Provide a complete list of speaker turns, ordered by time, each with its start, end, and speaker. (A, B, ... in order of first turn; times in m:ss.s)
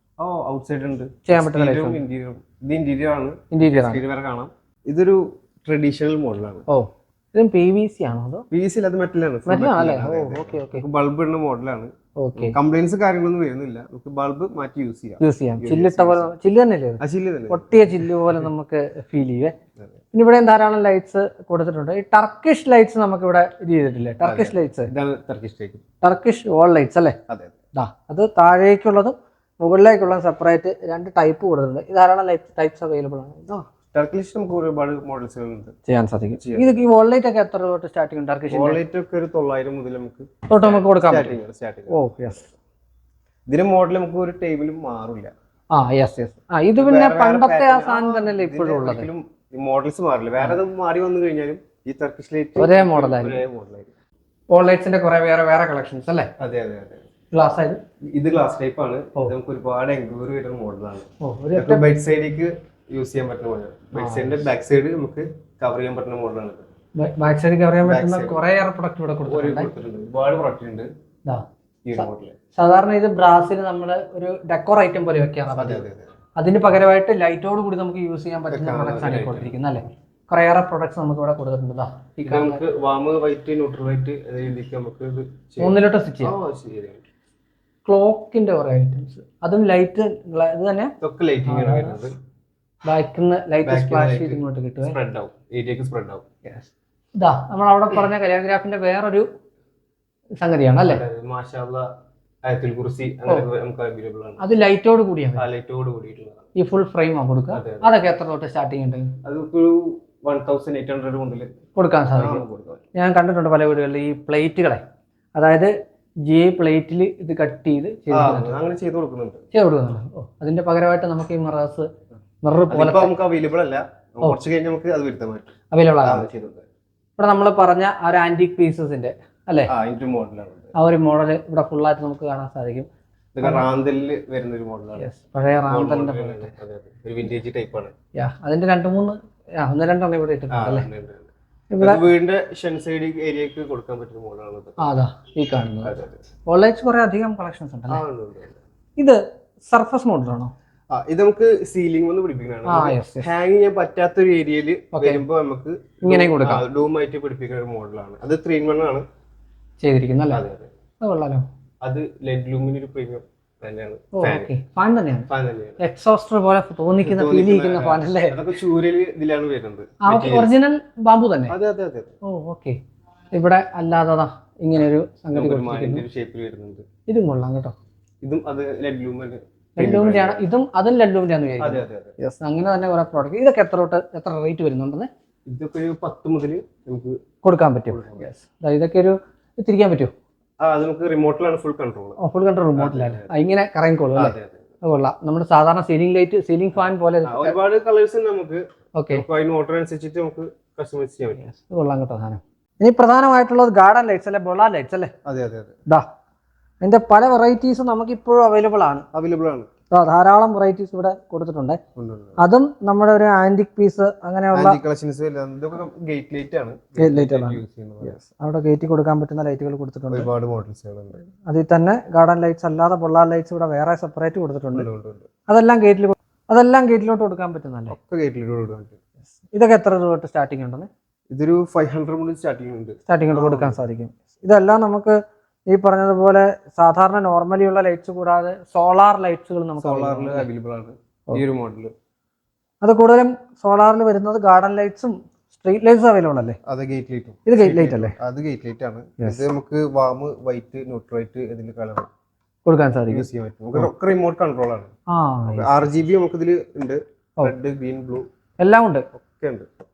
0:00.2-0:06.7 A
0:01.3-0:02.0 B
0:03.5-0:04.0 B
0:06.7-0:08.4 B
0:08.5-0:16.3 A
0:09.5-0:10.8 B
0:12.2-0:12.6 B
0:15.2-0:19.6 B
0:17.0-0:18.5 A
0:20.1-0:24.9 B
0:24.2-0:25.9 A
0:26.0-0:27.2 B
0:27.3-0:27.6 A
0:27.7-0:33.5 B
0:33.5-0:35.8 A
0:35.9-0:38.8 B
0:36.4-0:36.8 A
0:38.5-0:42.0 A
0:40.5-0:41.4 B
0:41.9-0:42.5 B
0:43.5-0:45.3 A
0:45.7-0:49.1 B
0:46.8-0:53.9 A
0:52.6-0:53.4 B
0:54.5-0:56.3 B
0:56.4-0:57.0 A
0:57.3-0:57.8 B
0:58.1-1:06.6 A
1:01.2-1:01.8 B
1:04.0-1:04.4 B
1:07.0-1:09.7 B
1:07.8-1:08.4 A
1:09.2-1:10.9 A
1:11.8-1:12.4 A
1:12.0-1:15.8 B
1:15.5-1:16.1 A
1:16.4-1:22.6 B
1:18.5-1:19.6 A
1:22.3-1:27.0 A
1:25.6-1:26.4 B
1:27.8-1:30.9 B
1:31.0-1:32.1 A
1:31.5-1:32.0 B
1:32.8-1:35.0 B
1:33.6-1:36.3 A
1:36.4-1:39.3 B
1:40.4-1:41.0 B
1:40.8-1:41.9 A
1:42.4-1:44.4 A
1:44.4-1:45.4 B
1:45.4-1:46.5 A
1:46.6-1:49.1 B
1:47.5-1:48.0 A
1:49.2-1:51.5 A
1:51.8-1:52.4 B
1:52.2-1:52.8 A
1:53.0-1:54.8 B
1:55.4-1:55.7 B
1:56.3-1:58.6 B
1:58.1-1:59.4 A
1:59.5-2:01.9 B
2:02.4-2:03.1 B
2:02.7-2:06.6 A
2:05.7-2:06.3 B
2:07.2-2:09.7 B
2:09.7-2:10.7 A
2:10.8-2:12.9 B
2:13.4-2:15.1 A
2:13.4-2:13.7 B
2:15.0-2:16.5 B
2:15.7-2:17.9 A
2:18.2-2:20.9 B
2:20.5-2:24.8 A
2:21.7-2:22.0 B
2:24.8-2:25.9 B
2:25.8-2:26.2 A
2:26.5-2:28.0 B
2:27.9-2:28.6 A
2:29.7-2:30.5 B
2:30.9-2:39.0 A
2:32.7-2:33.3 B
2:34.9-2:35.2 B
2:36.0-2:36.6 B
2:39.8-2:40.4 B
2:40.3-2:40.7 A
2:41.0-2:41.5 B
2:41.8-2:44.5 A
2:44.2-2:45.3 B
2:45.3-2:45.8 A
2:45.8-2:48.4 B
2:47.0-2:50.5 A
2:50.0-2:51.6 B
2:51.5-2:52.1 A
2:52.2-2:52.8 B
2:53.3-2:56.0 B
2:55.3-2:56.9 A
2:57.1-2:57.7 B
2:58.2-3:00.4 A
2:59.8-3:05.1 B
3:01.6-3:02.2 A
3:05.5-3:07.2 A
3:07.4-3:10.1 B
3:07.9-3:08.3 A
3:10.6-3:12.2 A
3:12.2-3:17.6 B
3:12.8-3:13.3 A
3:14.2-3:14.6 A
3:17.2-3:21.5 A
3:19.0-3:19.2 B
3:21.4-3:25.1 B
3:25.2-3:25.8 A
3:26.8-3:29.1 B
3:29.1-3:29.7 A
3:29.9-3:31.8 B
3:32.0-3:32.4 A
3:32.4-3:34.8 B
3:34.5-3:38.2 A
3:37.0-3:40.3 B
3:40.1-3:41.2 A
3:41.3-3:44.9 B
3:44.7-3:45.3 A
3:45.5-3:48.0 B
3:47.9-3:49.0 A
3:49.5-3:50.9 B
3:51.3-3:53.8 A
3:53.1-4:00.5 B
3:59.8-4:01.9 A
4:02.8-4:06.6 B
4:06.6-4:12.1 A
4:07.5-4:08.2 B
4:12.6-4:13.9 B
4:13.1-4:14.9 A
4:15.1-4:15.8 B
4:15.5-4:18.2 A
4:18.6-4:19.1 B
4:19.2-4:19.7 A